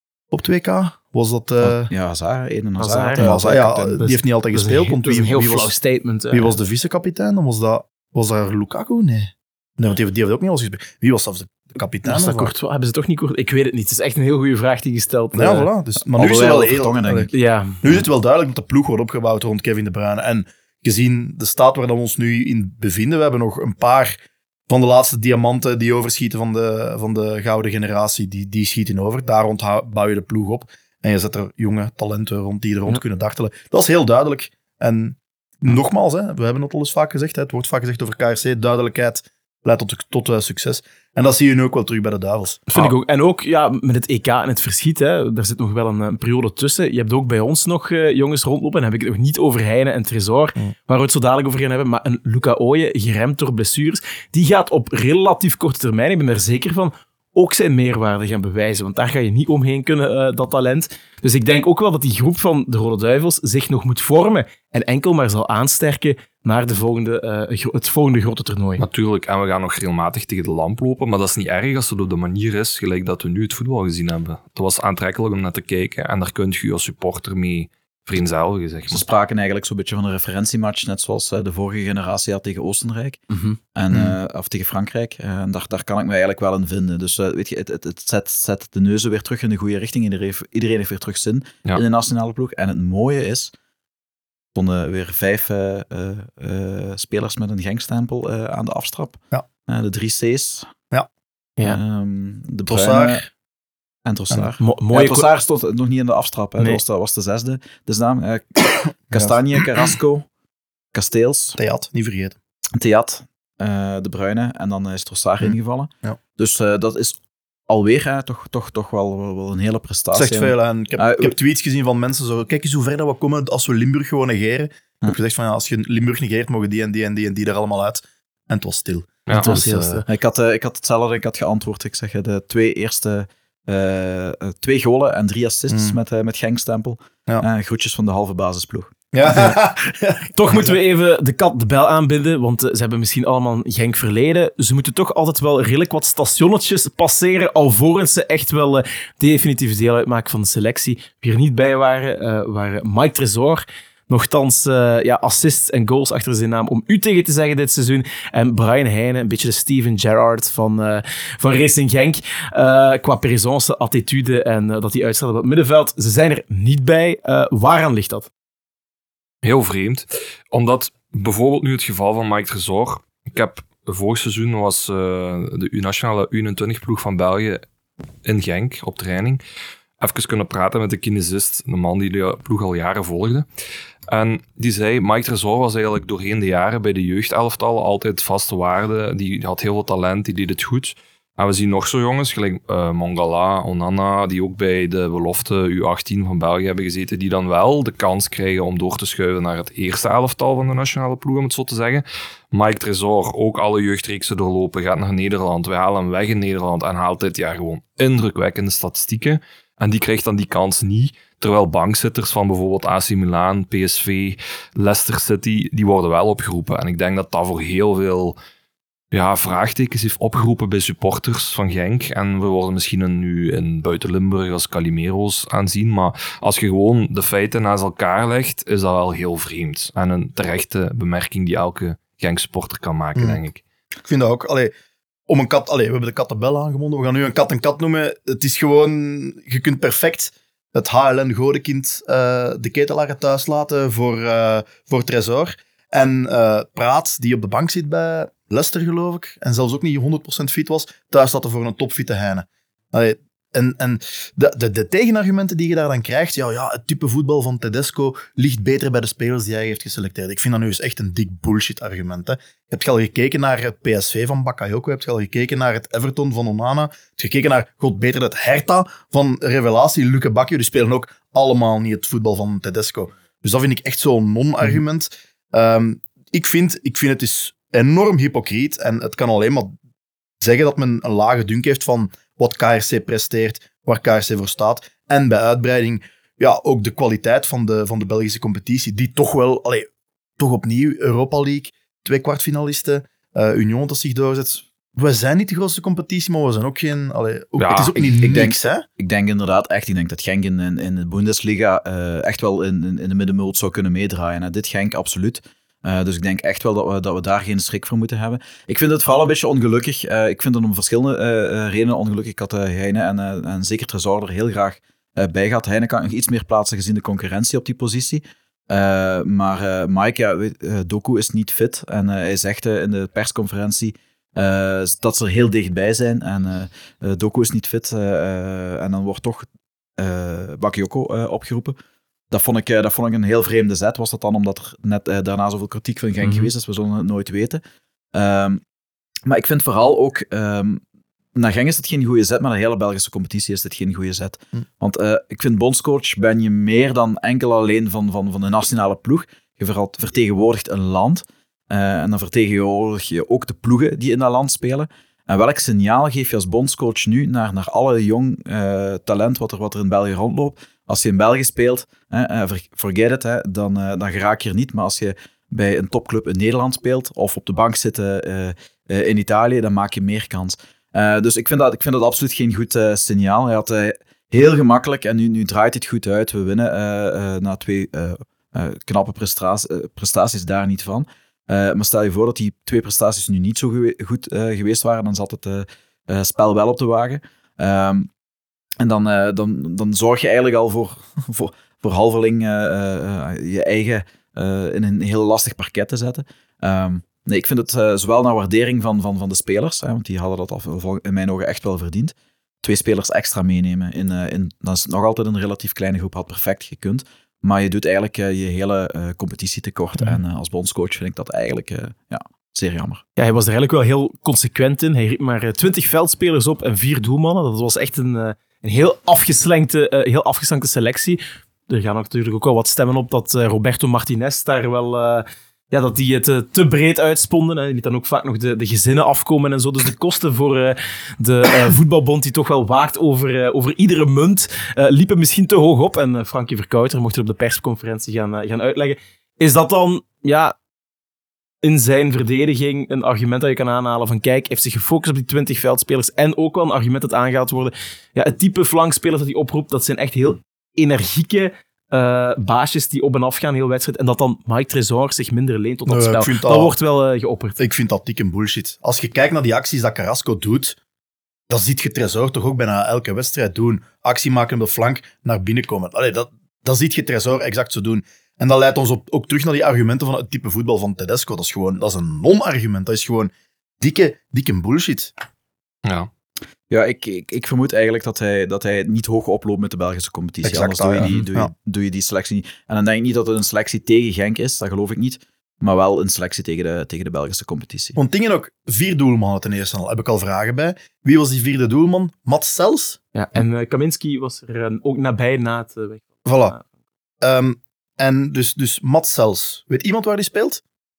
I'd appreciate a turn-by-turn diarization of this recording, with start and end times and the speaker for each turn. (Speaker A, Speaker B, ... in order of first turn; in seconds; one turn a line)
Speaker A: 0.3-1.9
Speaker B: 1.6-3.9
Speaker C: 2.8-6.5
Speaker A: 3.2-5.8
Speaker A: 6.3-12.5
Speaker C: 12.1-15.7
Speaker A: 15.3-17.3
Speaker B: 16.0-17.3
Speaker C: 17.3-17.8
Speaker A: 17.8-42.7
Speaker C: 42.7-68.8
Speaker D: 68.8-79.0
Speaker B: 78.9-83.2
Speaker C: 83.3-83.5
Speaker B: 83.7-93.5
Speaker B: 94.5-100.7
Speaker B: 101.6-103.2
Speaker A: 102.7-103.3
Speaker B: 104.0-110.3
Speaker C: 104.6-105.3
Speaker A: 108.8-109.3
Speaker B: 110.9-111.6
Speaker A: 111.6-112.4
Speaker B: 112.7-121.3
Speaker A: 115.4-116.2
Speaker A: 120.1-130.0
Speaker D: 129.3-129.5
Speaker C: 129.3-130.1
Speaker B: 130.1-138.9
Speaker A: 135.7-135.9
Speaker A: 139.1-140.7
Speaker C: 140.3-168.3
Speaker D: 169.4-177.6
Speaker D: 178.2-179.4
Speaker D: 180.0-183.4
Speaker D: 184.1-218.3
Speaker D: 219.1-233.6
Speaker A: 234.1-234.7
Speaker A: 235.3-279.7
Speaker A: 280.4-298.8
Speaker D: 297.6-298.2
Speaker B: 297.7-331.8
Speaker B: 332.3-337.6
Speaker B: 338.1-338.6
Speaker B: 339.2-340.8
Speaker B: 341.3-388.1
Speaker B: 388.8-413.0
Speaker C: 413.2-440.5
Speaker C: 441.6-457.6
Speaker A: 455.9-456.7
Speaker A: 457.6-460.8
Speaker A: 461.5-475.1
Speaker D: 475.8-476.1
Speaker B: 476.7-488.0
Speaker A: 480.4-481.5
Speaker A: 487.9-493.0
Speaker C: 493.1-496.6
Speaker A: 496.2-496.5
Speaker A: 497.2-500.6